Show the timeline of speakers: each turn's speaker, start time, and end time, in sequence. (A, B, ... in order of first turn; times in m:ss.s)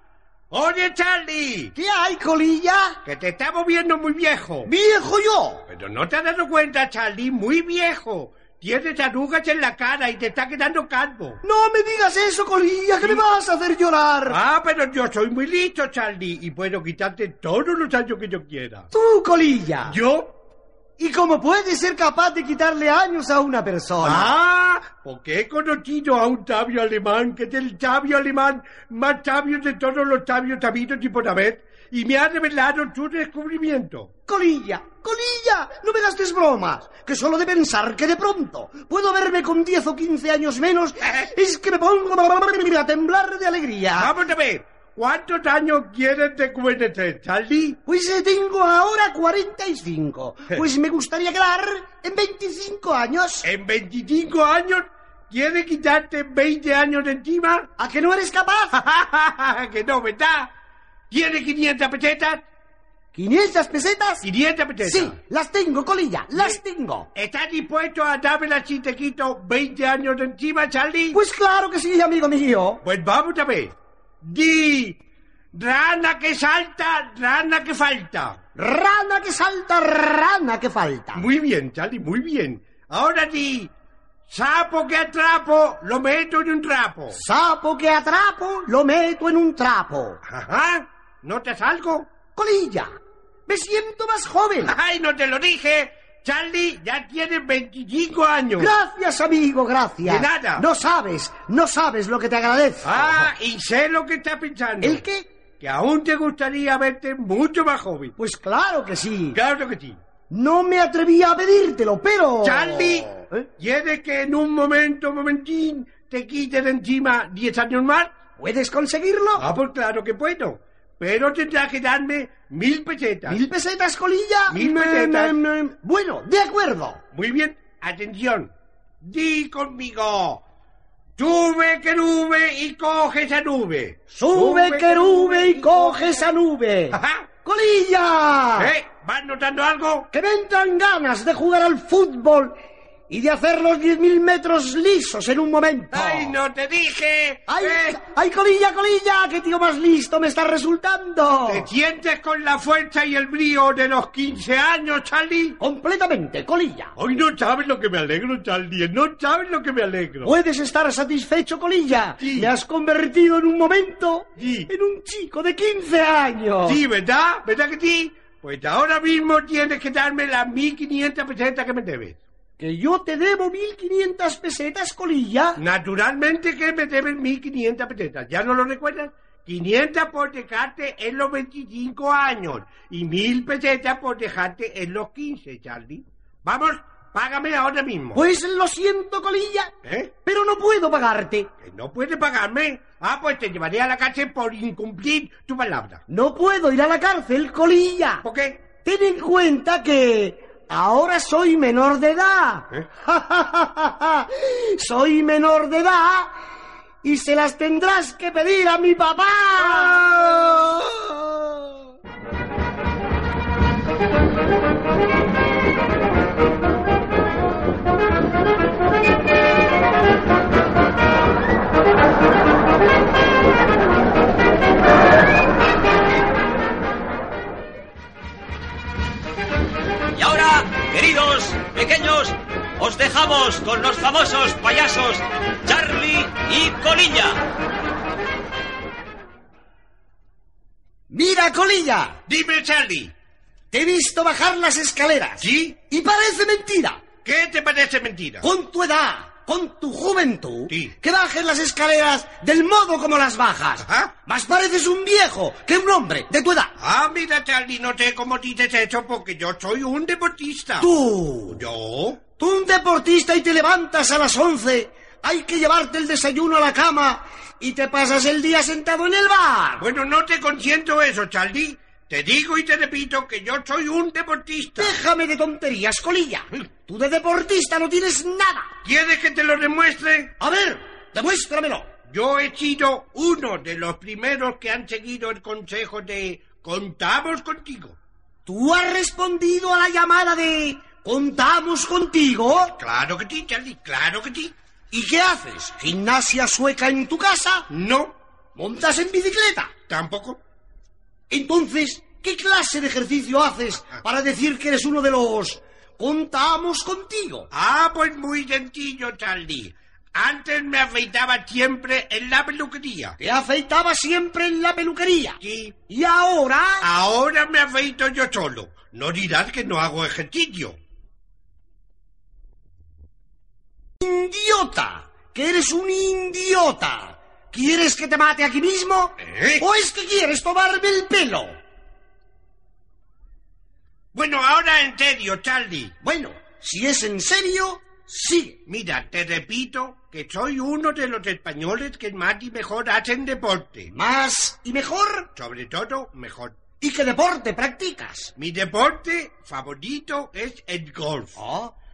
0:00.5-0:01.7 A
0:01.7-0:03.0 B
0:03.0-0:04.7 A
0:04.6-0:05.6 B
0:05.7-0:11.4 A
0:11.4-0:14.4 B
0:14.3-0:18.9 A
0:18.9-0:20.0 B
0:19.9-0:20.3 A
0:21.0-0:24.3 B
0:24.0-0:34.1 A
0:34.3-0:44.1 B
0:41.0-0:41.3 A
0:44.0-0:47.8 A
0:47.8-0:53.4 B
0:53.4-0:57.7 A
0:57.8-0:58.8 B
0:58.7-1:00.5 A
1:01.1-1:02.4 A
1:03.1-1:04.3 B
1:04.2-1:05.2 A
1:04.8-1:07.1 B
1:07.1-1:11.2 A
1:11.1-1:12.8 B
1:12.8-1:15.0 A
1:15.5-1:18.4 A
1:18.6-1:21.2 B
1:21.1-1:23.7 A
1:24.3-1:27.2 A
1:27.1-1:30.2 B
1:30.2-1:32.1 A
1:32.3-1:32.9 B
1:33.5-1:34.7 B
1:34.6-1:38.7 A
1:38.6-1:43.3 B
1:40.0-1:40.6 A
1:42.8-1:45.0 A
1:44.8-1:45.3 B
1:45.6-1:48.1 A
1:48.2-1:49.4 B
1:49.3-1:50.0 A
1:50.3-1:53.4 B
1:52.4-1:58.1 A
1:58.4-1:59.5 B
1:59.4-2:03.4 A
2:03.3-2:07.0 B
2:04.5-2:05.4 A
2:07.1-2:08.5 A
2:09.0-2:10.4 A
2:11.2-2:16.0 A
2:14.1-2:18.7 B
2:16.9-2:17.3 A
2:18.6-2:20.1 A
2:20.1-2:22.5 B
2:23.1-2:26.4 B
2:25.9-2:28.0 A
2:27.5-2:31.7 B
2:31.5-2:35.6 A
2:35.6-2:36.9 B
2:37.0-2:40.3 A
2:40.2-2:46.8 B
2:42.2-2:42.5 A
2:44.4-2:44.7 A
2:46.6-2:52.2 A
2:52.6-2:55.6 B
2:55.6-3:08.2 A
3:08.1-3:09.7 B
3:09.8-3:10.1 A
3:10.2-3:11.5 B
3:11.6-3:16.0 A
3:16.1-3:18.2 B
3:18.2-3:18.6 A
3:18.8-3:26.3 B
3:27.0-3:31.6 B
3:29.6-3:30.7 A
3:50.1-3:57.4 C
4:01.1-4:02.2 B
4:02.3-4:03.1 A
4:03.7-4:07.0 B
4:05.4-4:05.8 A
4:07.2-4:08.4 A
4:08.4-4:16.7 B
4:10.7-4:10.9 A
4:13.8-4:14.1 A
4:16.8-4:20.9 A
4:20.8-4:21.6 B
4:21.5-4:22.2 A
4:22.4-4:29.8 B
4:29.8-4:35.0 A
4:34.8-4:38.7 B
4:38.8-4:40.3 A
4:40.4-4:41.9 B
4:42.1-4:48.0 A
4:48.4-4:52.7 B
4:52.6-4:54.5 A
4:54.9-4:57.7 B
4:57.7-4:58.1 A
4:58.6-4:59.7 B
4:59.9-5:00.4 A
5:01.3-5:07.5 B
5:07.5-5:13.2 A
5:13.2-5:16.9 B
5:15.4-5:15.7 A
5:16.8-5:20.8 A
5:24.0-5:31.5 B
5:29.2-5:29.6 A
5:34.1-5:35.9 A
5:36.0-5:38.6 B
5:38.6-5:43.9 A
5:43.9-5:45.3 B
5:45.3-5:46.6 A
5:46.8-5:48.3 B
5:48.4-5:51.4 A
5:51.4-5:51.7 B